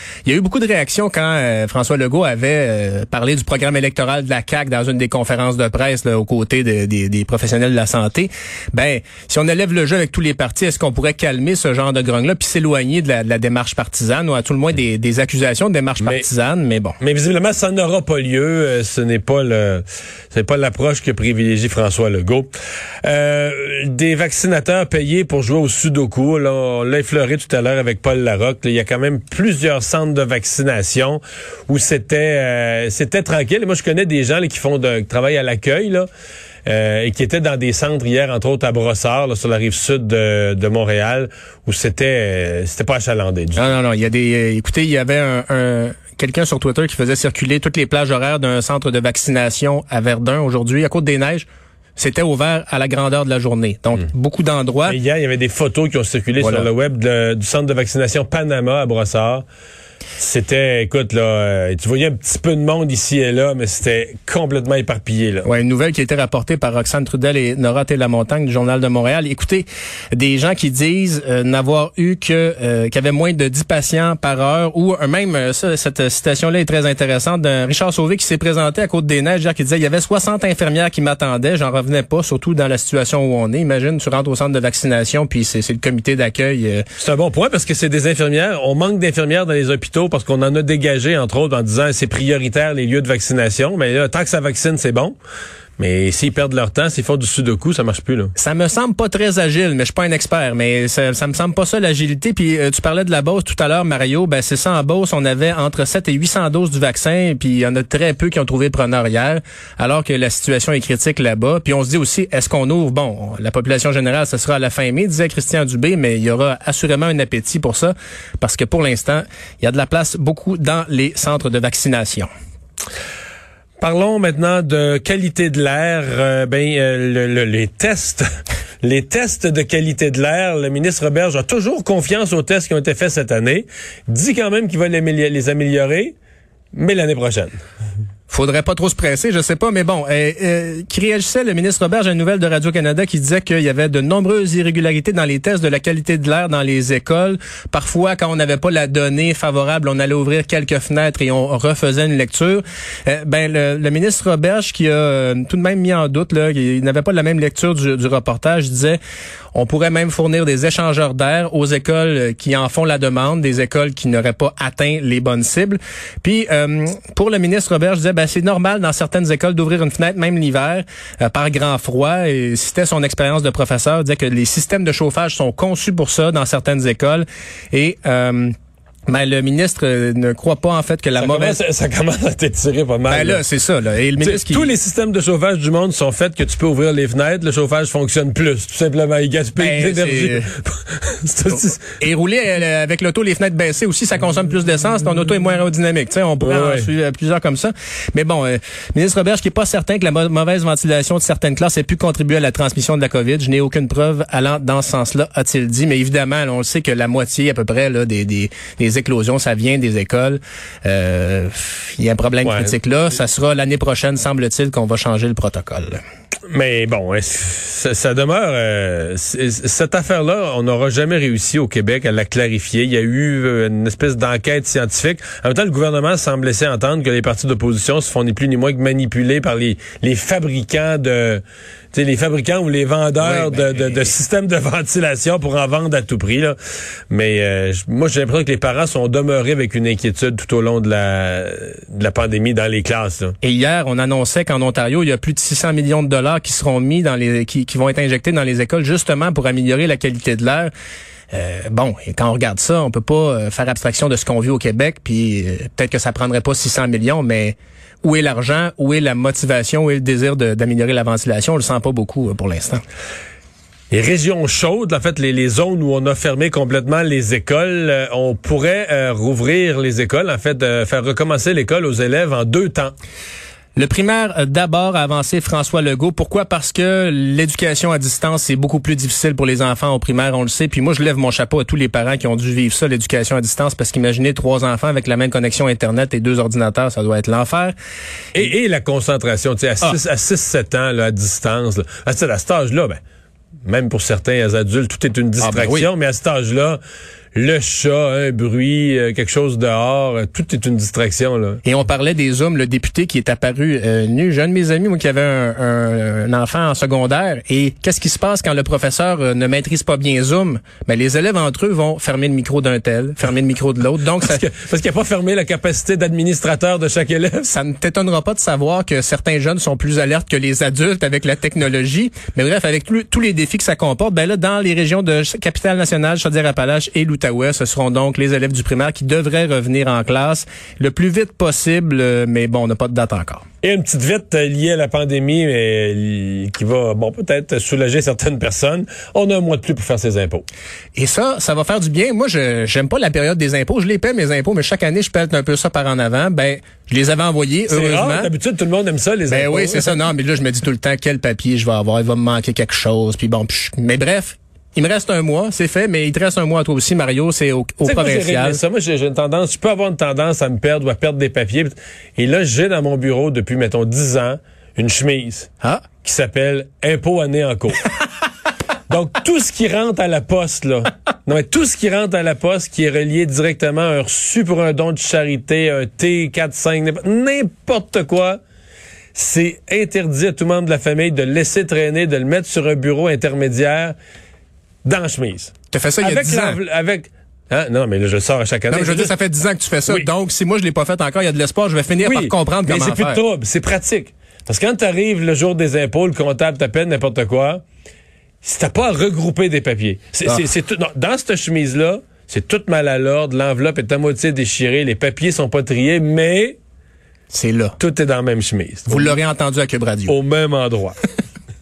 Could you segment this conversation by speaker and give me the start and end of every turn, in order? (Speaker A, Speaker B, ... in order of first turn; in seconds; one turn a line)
Speaker A: 0.2-17.0
Speaker B: 17.0-22.5
Speaker B: 23.0-36.1
Speaker B: 36.7-43.7
Speaker A: 43.6-55.0
Speaker B: 54.9-59.4
Speaker A: 56.4-56.7
Speaker B: 60.2-65.5
Speaker A: 65.4-86.9
Speaker B: 87.0-95.2
Speaker B: 95.8-98.3
Speaker A: 98.4-122.3
Speaker B: 123.8-128.2
Speaker B: 128.8-136.1
Speaker B: 136.7-137.6
Speaker A: 138.3-159.0
Speaker A: 159.5-178.5
Speaker A: 179.1-181.6
Speaker B: 181.2-183.4
Speaker A: 183.1-184.8
Speaker B: 184.2-191.9
Speaker A: 189.6-190.5
Speaker A: 191.8-216.0
Speaker B: 196.4-196.9
Speaker B: 212.4-212.7
Speaker B: 216.5-236.6
Speaker A: 233.2-234.1
Speaker B: 237.1-243.3
Speaker A: 243.4-250.7
Speaker A: 251.3-262.8
Speaker B: 263.9-272.9
Speaker A: 273.8-287.8
Speaker B: 288.3-293.0
Speaker B: 293.7-296.8
Speaker A: 295.4-295.9
Speaker B: 297.3-301.6
Speaker A: 301.6-314.4
Speaker B: 314.2-317.5
Speaker A: 317.5-333.4
Speaker B: 333.6-340.4
Speaker A: 340.9-348.3
Speaker B: 347.7-350.0
Speaker A: 349.3-358.6
Speaker B: 357.8-367.9
Speaker B: 368.9-378.4
Speaker B: 379.1-383.9
Speaker B: 384.8-389.1
Speaker A: 385.7-386.6
Speaker A: 388.7-393.2
Speaker B: 392.0-397.6
Speaker B: 398.4-406.6
Speaker A: 407.3-407.8
Speaker B: 407.8-409.2
Speaker A: 408.9-410.2
Speaker B: 410.1-410.9